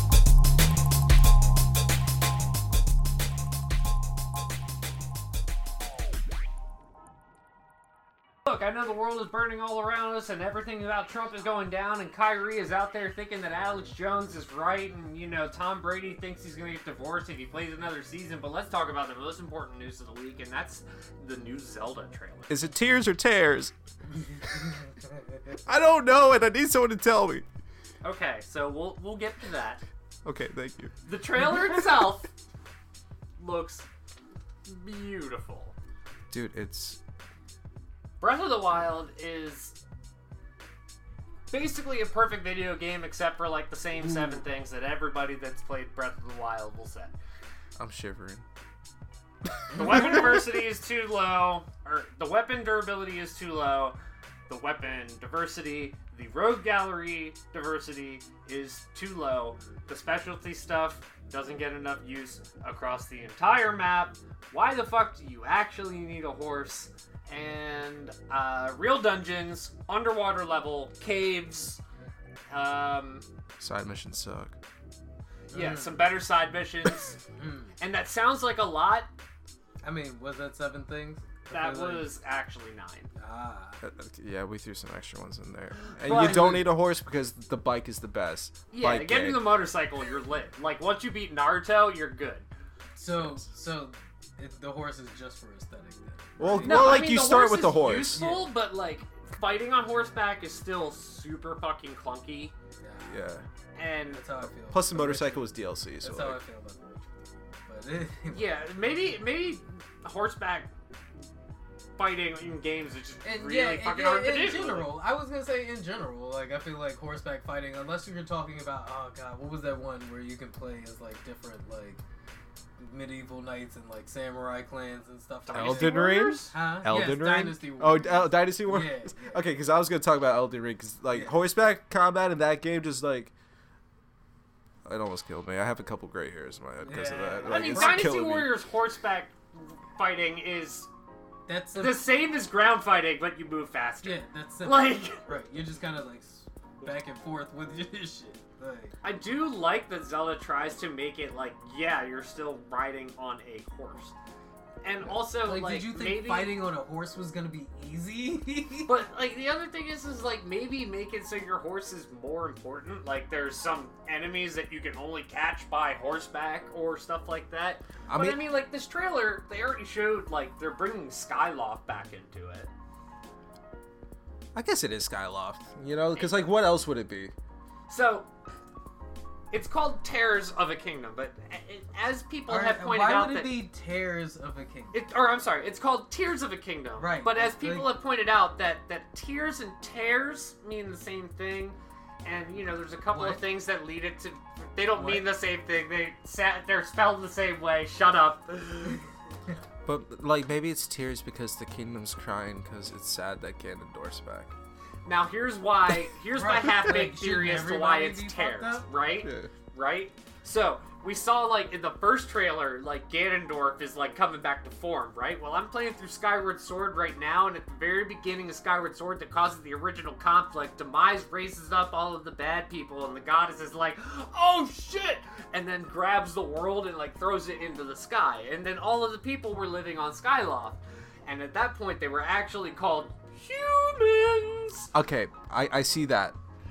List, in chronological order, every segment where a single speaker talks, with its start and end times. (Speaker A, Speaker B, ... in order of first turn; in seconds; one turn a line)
Speaker A: 8.4-22.5
Speaker B: 22.5-23.7
Speaker C: 24.2-25.4
Speaker B: 25.5-27.4
Speaker A: 28.0-29.8
Speaker B: 30.2-30.9
Speaker A: 31.1-32.3
Speaker A: 33.4-33.9
Speaker A: 34.7-35.7
Speaker B: 36.3-37.0
Speaker A: 38.2-39.8
Speaker A: 41.5-47.1
Speaker B: 47.8-48.5
Speaker A: 49.7-54.0
Speaker B: 49.7-50.2
Speaker A: 54.5-71.8
Speaker A: 72.5-73.2
Speaker B: 73.6-74.6
Speaker C: 75.5-76.1
Speaker A: 75.5-77.2
Speaker C: 77.2-77.7
Speaker A: 77.8-79.1
Speaker C: 79.8-82.1
Speaker A: 81.5-83.1
Speaker C: 83.2-83.8
Speaker B: 83.8-89.5
Speaker A: 86.0-86.6
Speaker C: 86.0-86.7
Speaker A: 88.7-92.5
Speaker C: 93.0-97.1
Speaker B: 93.2-93.4
Speaker B: 96.4-98.2
Speaker A: 96.6-102.5
Speaker C: 98.1-98.5
Speaker C: 102.8-103.3
Speaker B: 103.1-103.5
Speaker A: 103.8-104.2
Speaker C: 104.1-108.4
Speaker B: 104.7-106.4
Speaker A: 108.3-110.7
Speaker A: 112.0-114.9
Speaker C: 113.2-122.0
Speaker C: 122.8-129.4
Speaker A: 125.5-126.5
Speaker B: 125.5-133.3
Speaker C: 131.1-131.4
Speaker B: 134.8-138.5
Speaker C: 136.8-138.1
Speaker A: 137.4-140.9
Speaker C: 141.5-142.1
Speaker A: 141.8-145.2
Speaker C: 144.0-148.9
Speaker A: 149.0-154.2
Speaker A: 154.8-156.6
Speaker C: 155.3-158.9
Speaker A: 158.9-172.7
Speaker B: 168.1-168.4
Speaker B: 174.6-177.3
Speaker A: 176.1-176.5
Speaker A: 177.9-178.3
Speaker A: 179.5-183.6
Speaker C: 182.5-185.0
Speaker A: 184.9-199.0
Speaker C: 187.0-187.9
Speaker C: 193.1-193.4
Speaker C: 195.0-195.3
Speaker B: 199.8-204.5
Speaker A: 205.1-234.9
Speaker C: 206.3-208.9
Speaker B: 209.2-209.5
Speaker B: 234.9-236.4